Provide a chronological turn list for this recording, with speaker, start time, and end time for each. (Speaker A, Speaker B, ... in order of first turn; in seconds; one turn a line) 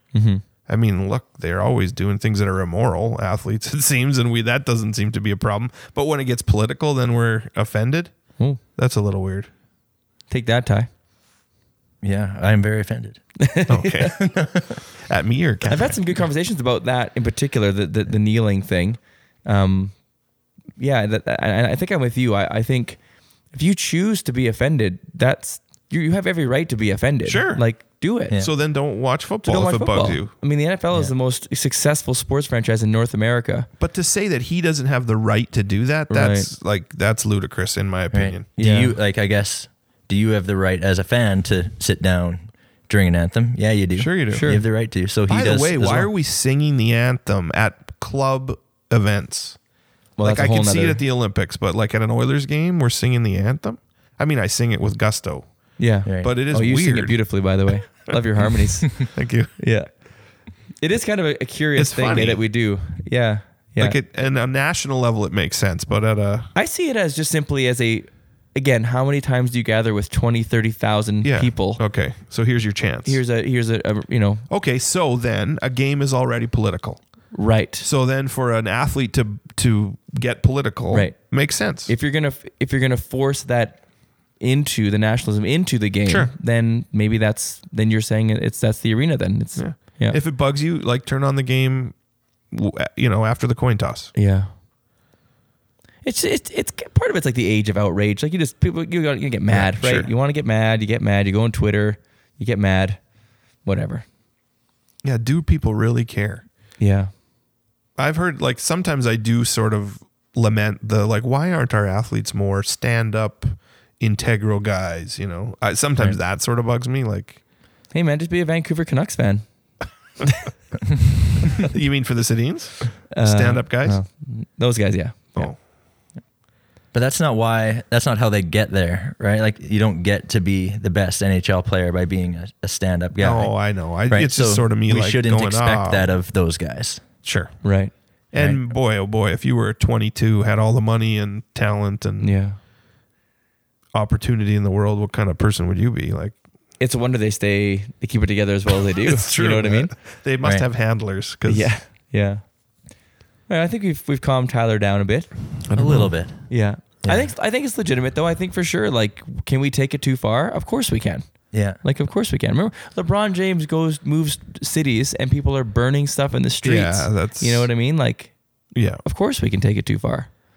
Speaker A: 0.1-0.4
Speaker B: 0.7-9.5
Speaker A: 10.3-10.9
Speaker C: 12.0-13.2
Speaker A: 13.4-14.0
Speaker B: 13.7-16.0
Speaker C: 14.2-14.8
Speaker A: 15.7-20.0
Speaker A: 20.8-23.0
Speaker A: 23.5-28.4
Speaker B: 27.2-27.6
Speaker B: 28.4-30.3
Speaker A: 29.4-33.7
Speaker B: 33.8-38.5
Speaker A: 36.1-36.5
Speaker C: 38.1-46.1
Speaker A: 38.6-38.9
Speaker B: 44.0-44.5
Speaker A: 44.3-44.6
Speaker B: 45.3-49.6
Speaker A: 50.2-51.0
Speaker B: 50.2-57.4
Speaker A: 55.8-59.9
Speaker C: 56.1-56.3
Speaker B: 59.1-59.5
Speaker A: 60.8-64.0
Speaker B: 61.8-62.4
Speaker B: 63.8-66.5
Speaker A: 66.5-71.8
Speaker B: 71.2-73.2
Speaker A: 73.0-74.5
Speaker B: 74.5-77.2
Speaker A: 77.3-77.9
Speaker B: 77.8-81.9
Speaker A: 80.9-90.2
Speaker B: 86.1-86.3
Speaker B: 89.6-92.0
Speaker B: 92.5-94.1
Speaker A: 94.1-94.5
Speaker A: 96.0-103.1
Speaker B: 99.5-100.1
Speaker A: 103.6-104.1
Speaker B: 105.0-106.4
Speaker A: 106.8-107.1
Speaker B: 108.0-117.4
Speaker A: 117.9-119.5
Speaker B: 121.6-124.0
Speaker A: 123.1-125.5
Speaker C: 126.9-133.6
Speaker B: 133.2-136.1
Speaker C: 134.1-137.0
Speaker B: 137.2-137.7
Speaker A: 137.6-137.9
Speaker B: 138.3-142.3
Speaker C: 138.3-138.6
Speaker A: 142.2-142.6
Speaker B: 143.9-146.4
Speaker A: 146.8-149.9
Speaker B: 149.0-151.7
Speaker A: 151.4-152.4
Speaker A: 153.5-155.3
Speaker B: 155.7-156.1
Speaker C: 155.7-156.5
Speaker A: 156.5-168.4
Speaker C: 157.0-157.3
Speaker C: 161.5-161.8
Speaker B: 166.6-167.7
Speaker B: 168.7-169.0
Speaker A: 169.0-170.3